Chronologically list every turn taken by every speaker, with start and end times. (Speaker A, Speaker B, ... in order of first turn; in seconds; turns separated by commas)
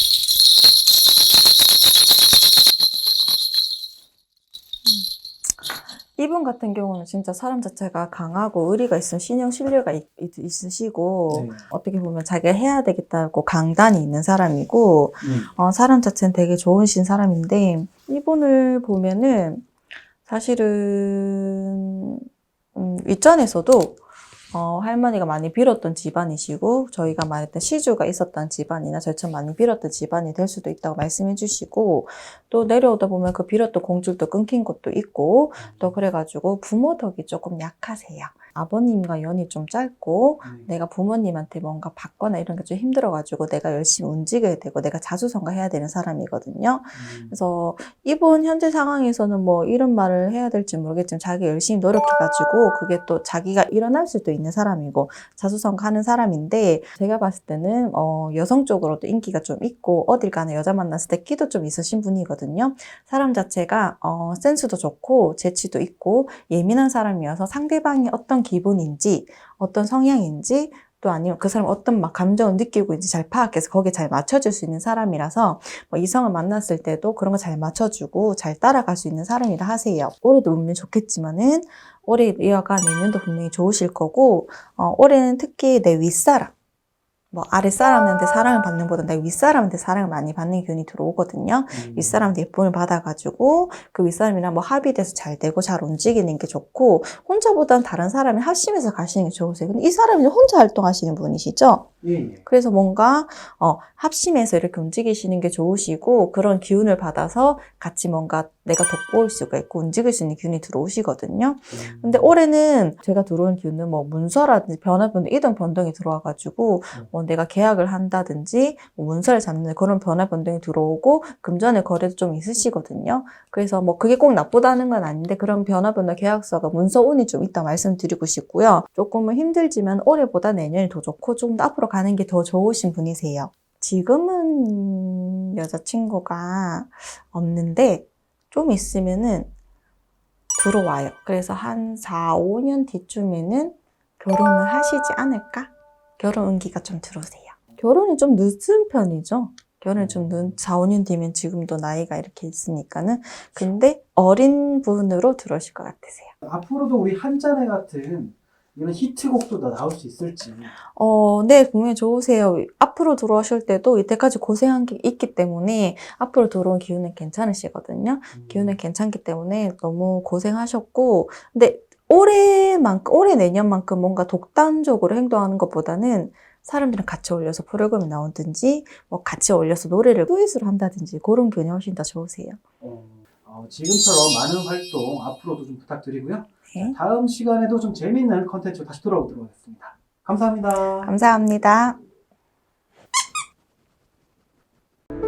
Speaker A: 4.8-19.7, Speaker B: 11.3-11.6, Speaker B: 15.2-15.5, Speaker A: 20.2-24.0, Speaker A: 24.5-86.5, Speaker B: 35.6-36.0, Speaker B: 40.4-40.7, Speaker B: 46.9-47.4, Speaker A: 87.3-101.9, Speaker B: 91.7-92.3, Speaker B: 102.0-102.4, Speaker A: 102.5-139.5, Speaker B: 111.7-112.3, Speaker A: 140.6-156.3, Speaker B: 149.9-150.6, Speaker B: 156.4-160.7, Speaker A: 160.9-182.6, Speaker B: 168.3-168.8, Speaker B: 182.8-191.1, Speaker A: 186.7-186.9, Speaker A: 191.0-192.0